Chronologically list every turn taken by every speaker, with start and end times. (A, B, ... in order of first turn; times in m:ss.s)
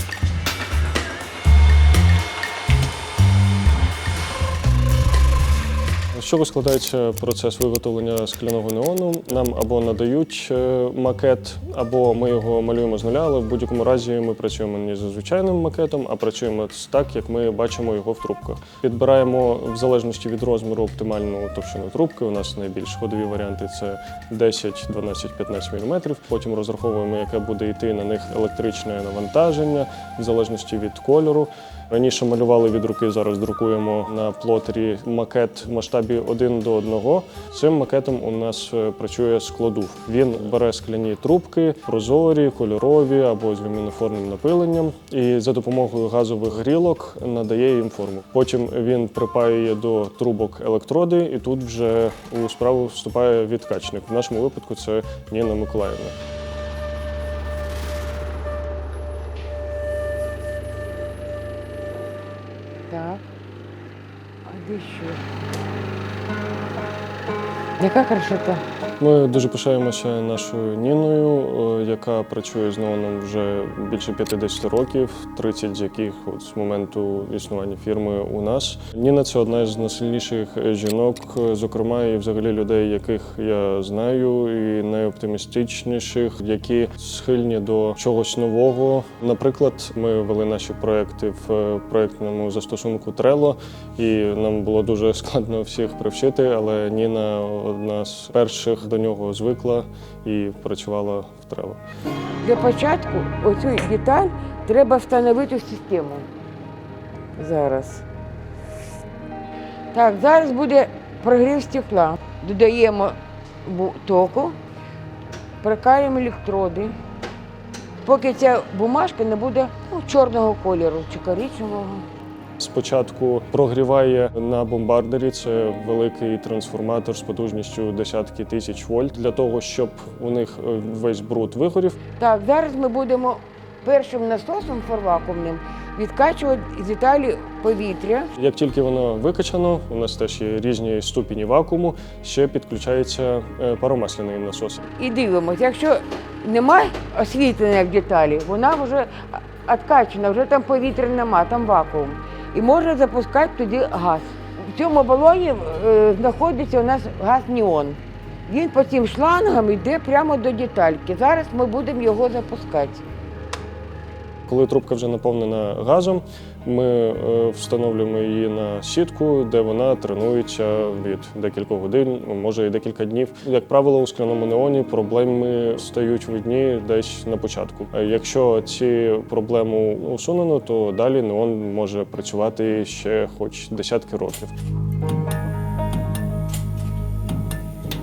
0:06.1-0:56.2 A
1:02.9-1:03.2 B
1:04.4-1:05.2 B
1:07.8-1:08.6 B
1:09.0-1:41.8 A
1:42.4-1:46.2 B
1:47.4-1:48.0 B
1:49.9-1:54.5 B
1:55.6-1:56.9 B
1:58.0-2:02.0 B
2:02.6-2:12.0 A
2:12.2-2:18.3 B
2:18.3-2:24.9 A
2:25.0-2:43.0 B
2:44.5-3:04.5 A